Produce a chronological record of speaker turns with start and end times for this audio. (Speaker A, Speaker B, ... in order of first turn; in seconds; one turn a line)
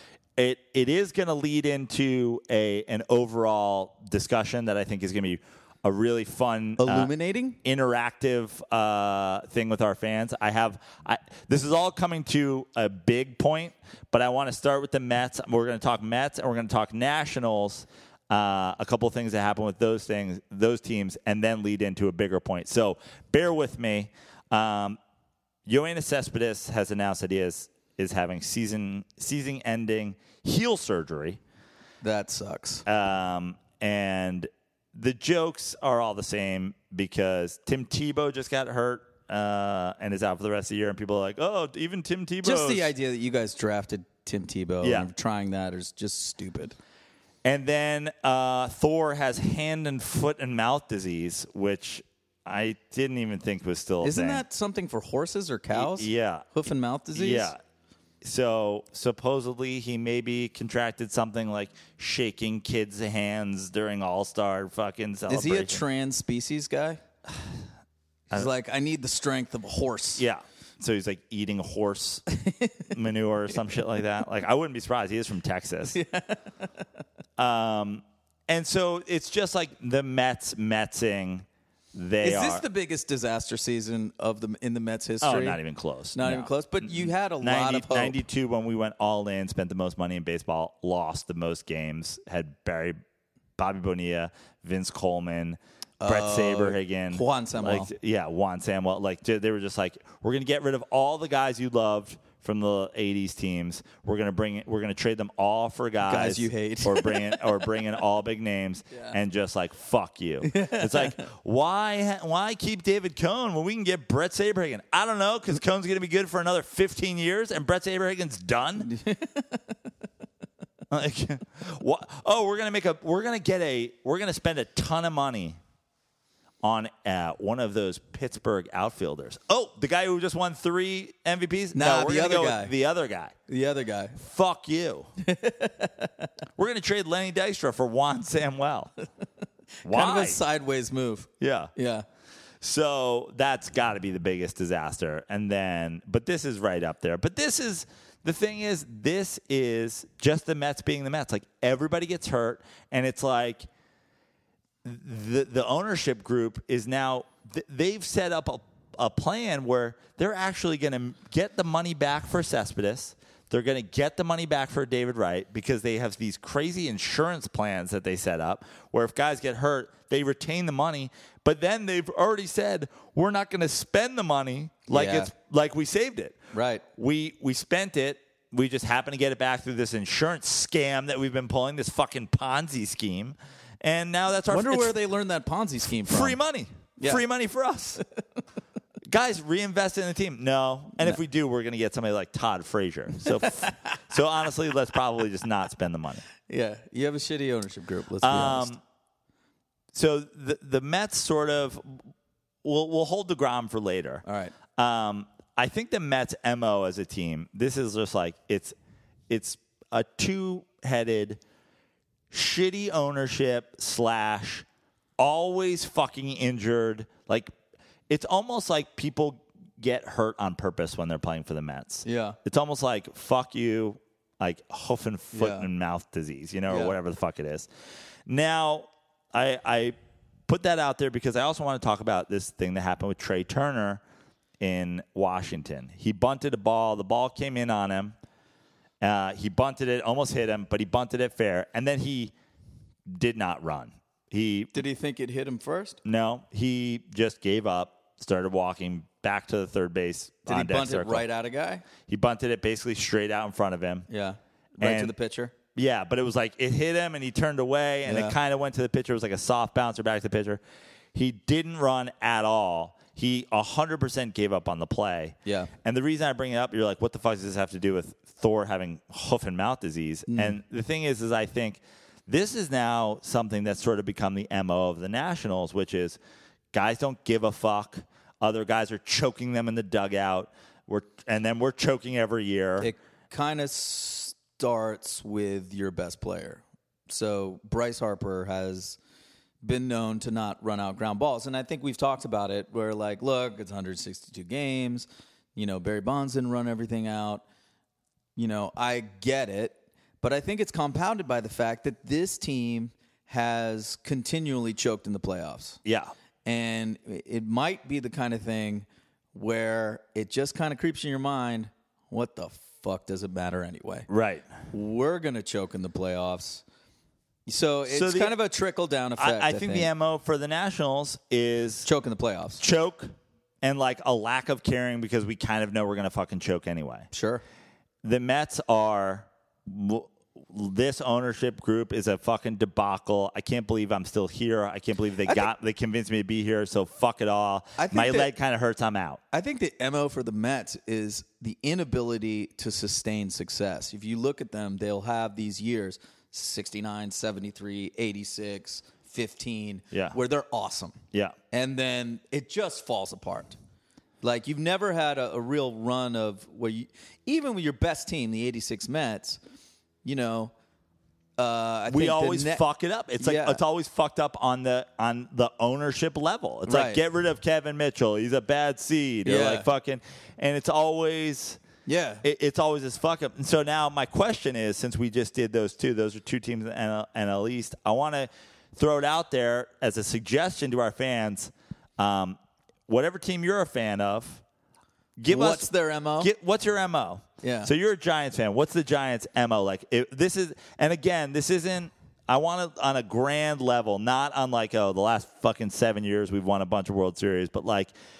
Speaker A: 0.3-7.1
Speaker B: 6.8-7.6
Speaker A: 7.6-25.0
Speaker A: 25.6-31.4
Speaker B: 32.0-32.9
Speaker A: 32.9-42.9
Speaker B: 42.4-46.8
Speaker A: 44.8-45.1
Speaker A: 47.4-54.4
Speaker B: 54.0-57.5
Speaker A: 55.7-56.5
Speaker A: 57.1-57.6
Speaker A: 58.2-65.8
Speaker B: 65.3-67.0
Speaker B: 68.3-70.2
Speaker A: 70.2-72.2
Speaker B: 72.4-72.8
Speaker A: 72.9-76.0
Speaker B: 75.9-76.5
Speaker A: 77.4-82.6
Speaker B: 82.2-85.6
Speaker A: 85.2-93.0
Speaker B: 86.1-88.2
Speaker A: 93.6-118.9
Speaker B: 96.0-97.9
Speaker B: 106.0-107.5
Speaker B: 110.4-111.2
Speaker B: 118.8-119.7
Speaker A: 120.9-125.6
Speaker A: 126.6-133.3
Speaker B: 131.7-132.7
Speaker B: 133.5-134.2
Speaker A: 134.2-135.1
Speaker B: 135.2-136.3
Speaker A: 136.6-138.9
Speaker B: 139.8-142.0
Speaker A: 139.8-140.4
Speaker A: 141.4-141.7
Speaker A: 142.6-153.7
Speaker A: 154.8-176.4
Speaker B: 174.9-175.3
Speaker B: 176.5-176.8
Speaker A: 176.9-184.9
Speaker B: 184.5-186.4
Speaker A: 186.0-188.0
Speaker A: 189.1-196.2
Speaker B: 193.2-194.0
Speaker B: 196.5-198.7
Speaker A: 198.2-198.8
Speaker A: 199.9-202.0
Speaker A: 202.6-204.2
Speaker B: 204.2-204.6
Speaker A: 204.8-208.7
Speaker A: 209.3-211.4
Speaker A: 212.3-214.7
Speaker A: 215.2-217.5
Speaker A: 218.1-227.7
Speaker B: 222.0-222.4
Speaker B: 225.3-225.7
Speaker B: 226.7-226.9
Speaker A: 228.3-229.9
Speaker A: 230.5-234.0
Speaker A: 234.6-238.1
Speaker A: 239.0-242.3
Speaker A: 243.1-244.7
Speaker B: 244.7-246.0
Speaker A: 246.0-251.2
Speaker B: 250.5-251.8
Speaker A: 252.1-254.1
Speaker B: 254.1-255.5
Speaker A: 254.8-255.1
Speaker A: 255.7-260.6
Speaker B: 258.1-258.4
Speaker A: 261.1-276.2
Speaker B: 265.4-265.7
Speaker B: 270.3-270.6
Speaker A: 276.7-282.9
Speaker B: 282.8-289.0
Speaker B: 289.6-297.4
Speaker B: 298.4-305.8
Speaker A: 305.8-306.1
Speaker B: 306.4-314.1
Speaker A: 314.1-314.5
Speaker B: 314.7-316.6
Speaker B: 317.5-319.9
Speaker A: 317.9-318.3
Speaker A: 319.2-321.9
Speaker B: 321.8-322.6
Speaker A: 322.6-327.1
Speaker B: 327.1-327.4
Speaker A: 328.0-339.2
Speaker B: 337.8-338.3
Speaker B: 339.3-351.0
Speaker A: 349.9-350.2
Speaker B: 351.5-353.6
Speaker B: 354.2-359.4
Speaker B: 360.0-360.5
Speaker B: 361.4-362.6
Speaker A: 361.9-371.6
Speaker B: 363.2-363.6
Speaker B: 366.7-367.0
Speaker B: 369.2-369.7
Speaker B: 371.9-372.2
Speaker A: 372.2-384.4
Speaker A: 385.2-385.7
Speaker B: 385.3-386.3
Speaker A: 386.2-397.9
Speaker B: 387.4-387.7